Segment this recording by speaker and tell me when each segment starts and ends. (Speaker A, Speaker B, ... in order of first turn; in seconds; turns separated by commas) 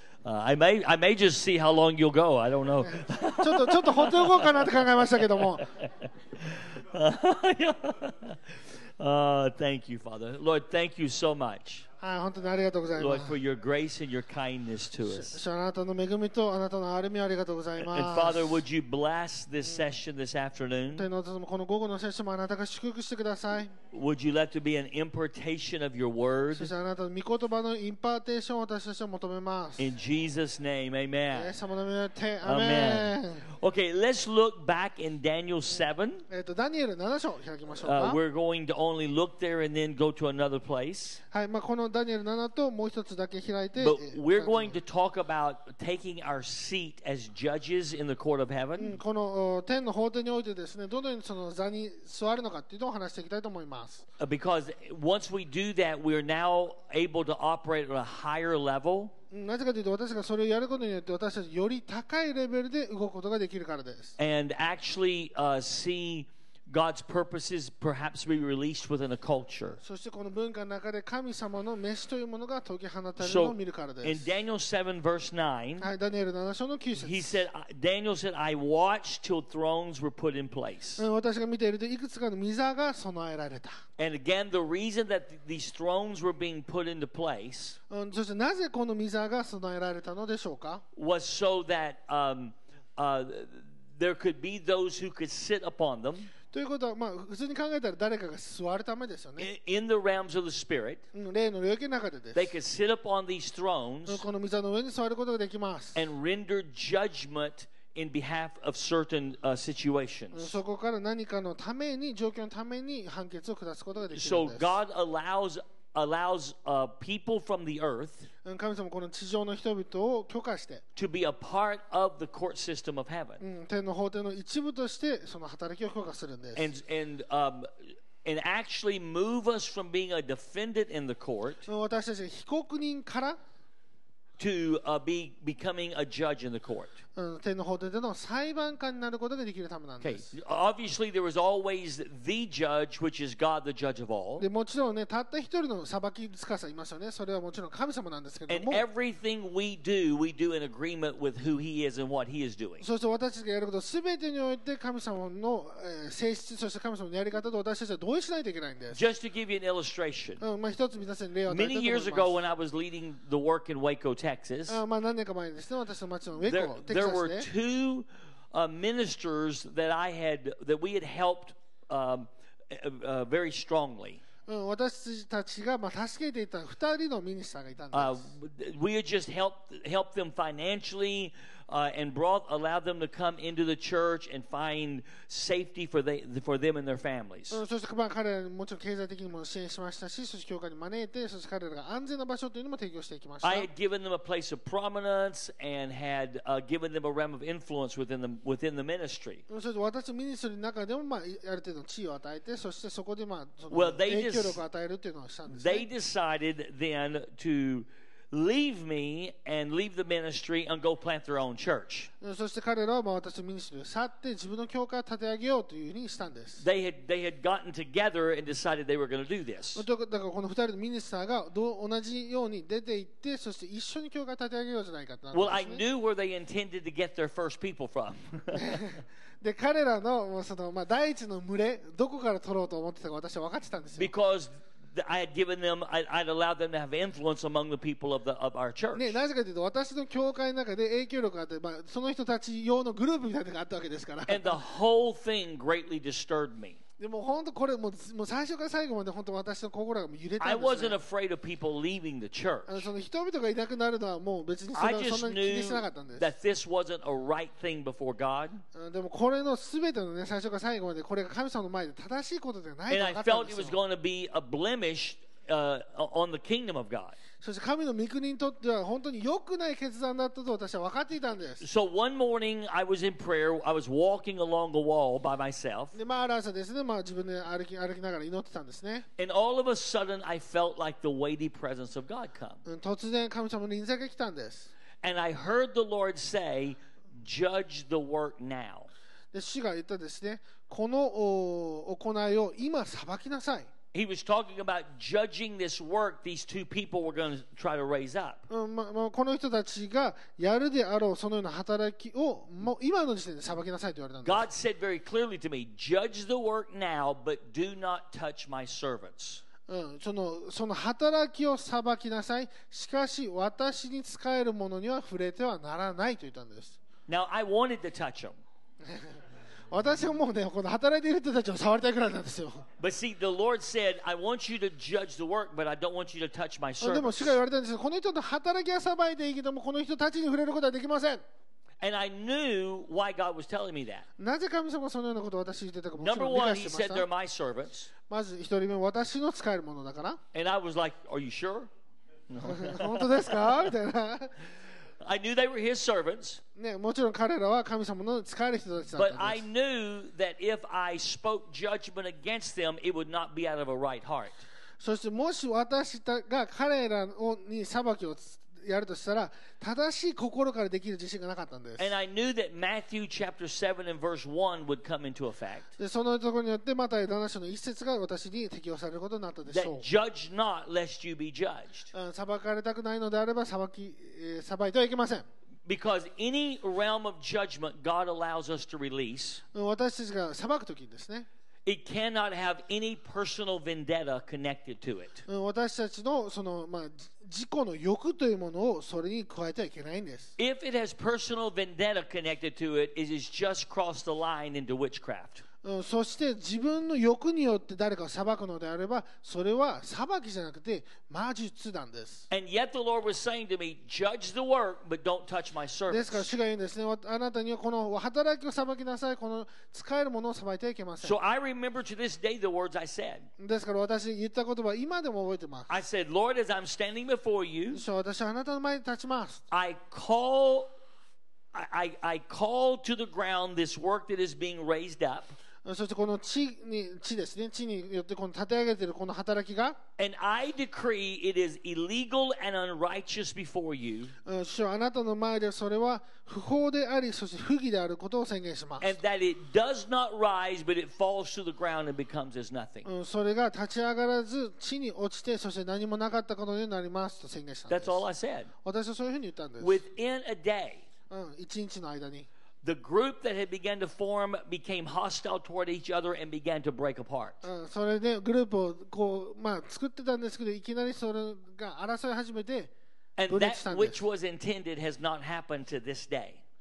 Speaker A: 0.2-4.7, Speaker B: 2.8-5.7, Speaker A: 5.8-11.8, Speaker B: 12.0-13.4, Speaker A: 13.0-15.4, Speaker B: 15.0-18.6, Speaker A: 17.8-21.1, Speaker B: 20.9-23.8, Speaker A: 23.9-26.7, Speaker B: 26.6-29.9, Speaker A: 29.8-31.6, Speaker B: 31.3-33.5, Speaker A: 32.4-36.2, Speaker B: 36.3-38.2, Speaker A: 37.8-41.2, Speaker B: 41.3-44.8, Speaker A: 43.8-49.0, Speaker B: 48.8-54.0, Speaker A: 54.2-59.1, Speaker B: 59.3-64.2, Speaker A: 64.2-69.8, Speaker B: 69.8-74.3, Speaker A: 73.2-75.9, Speaker B: 75.8-77.4, Speaker A: 77.0-81.0, Speaker B: 81.0-83.8, Speaker A: 84.0-87.8, Speaker B: 87.9-90.8, Speaker A: 91.0-96.3, Speaker B: 96.5-99.5, Speaker A: 99.4-101.0, Speaker B: 101.1-102.5, Speaker A: 102.3-104.2, Speaker B: 104.1-106.0, Speaker A: 106.0-110.5, Speaker B: 110.3-114.8, Speaker A: 114.1-118.3, Speaker B: 118.5-120.8, Speaker A: 121.0-123.4, Speaker B: 123.4-126.7, Speaker A: 126.6-131.7, Speaker B: 131.7-133.4, Speaker A: 134.4-137.0, Speaker B: 137.2-140.3, Speaker A: 140.0-144.5, Speaker B: 144.4-148.9, Speaker A: 148.5-152.8, Speaker B: 152.8-159.0, Speaker A: 158.9-160.4, Speaker B: 160.4-162.4, Speaker A: 161.5-164.8, Speaker B: 164.7-167.5, Speaker A: 166.4-174.2, Speaker B: 174.5-178.2, Speaker A: 177.9-187.6, Speaker B: 187.5-193.7, Speaker A: 193.4-199.4, Speaker B: 199.5-205.9, Speaker A: 203.7-204.6, Speaker A: 205.5-212.1, Speaker B: 212.2-216.6, Speaker A: 216.6-219.8, Speaker B: 219.8-225.8, Speaker A: 225.3-228.8, Speaker B: 228.5-234.1, Speaker A: 234.0-239.2, Speaker B: 238.9-244.6, Speaker A: 244.3-246.8, Speaker B: 247.0-251.0, Speaker A: 250.4-252.9, Speaker B: 252.7-256.3, Speaker A: 254.8-258.6, Speaker B: 258.8-263.8, Speaker A: 262.9-267.2, Speaker B: 267.4-271.6, Speaker A: 271.6-276.0, Speaker B: 275.9-279.1, Speaker A: 279.2-282.6, Speaker B: 282.7-284.7, Speaker A: 285.0-288.9, Speaker B: 289.3-293.7, Speaker A: 293.9-298.4, Speaker B: 298.5-304.4, Speaker A: 304.2-309.4, Speaker B: 309.7-316.8, Speaker A: 317.1-318.4, Speaker B: 318.9-319.1, Speaker B: 319.7-322.6, Speaker A: 322.8-327.4, Speaker B: 326.8-331.2, Speaker A: 331.8-334.1, Speaker B: 334.2-337.1, Speaker A: 336.0-337.9, Speaker B: 338.1-340.2, Speaker A: 340.3-341.7, Speaker A: 342.3-343.6, Speaker B: 342.4-344.3, Speaker A: 345.0-346.4, Speaker B: 346.6-349.4, Speaker A: 349.0-354.4, Speaker B: 354.8-361.9, Speaker A: 361.8-365.7, Speaker B: 365.8-369.9, Speaker A: 369.5-371.9, Speaker B: 371.9-375.3, Speaker A: 375.7-379.4, Speaker B: 379.5-381.3, Speaker A: 381.7-385.2, Speaker B: 385.3-390.3, Speaker A: 390.4-395.4, Speaker B: 395.6-402.2, Speaker A: 402.3-406.3, Speaker B: 405.9-411.2, Speaker A: 411.0-413.3, Speaker B: 413.4-415.8, Speaker A: 415.7-417.8, Speaker B: 417.7-419.4, Speaker A: 419.5-420.7, Speaker A: 421.5-425.4, Speaker B: 425.6-429.8, Speaker A: 430.0-434.1, Speaker B: 434.3-438.9, Speaker A: 438.8-442.9, Speaker B: 442.9-448.0, Speaker A: 447.7-448.5, Speaker B: 448.6-449.8, Speaker A: 449.6-450.8, Speaker B: 451.1-452.3, Speaker A: 452.6-457.4, Speaker B: 457.4-462.7, Speaker A: 463.2-466.4, Speaker B: 463.3-464.0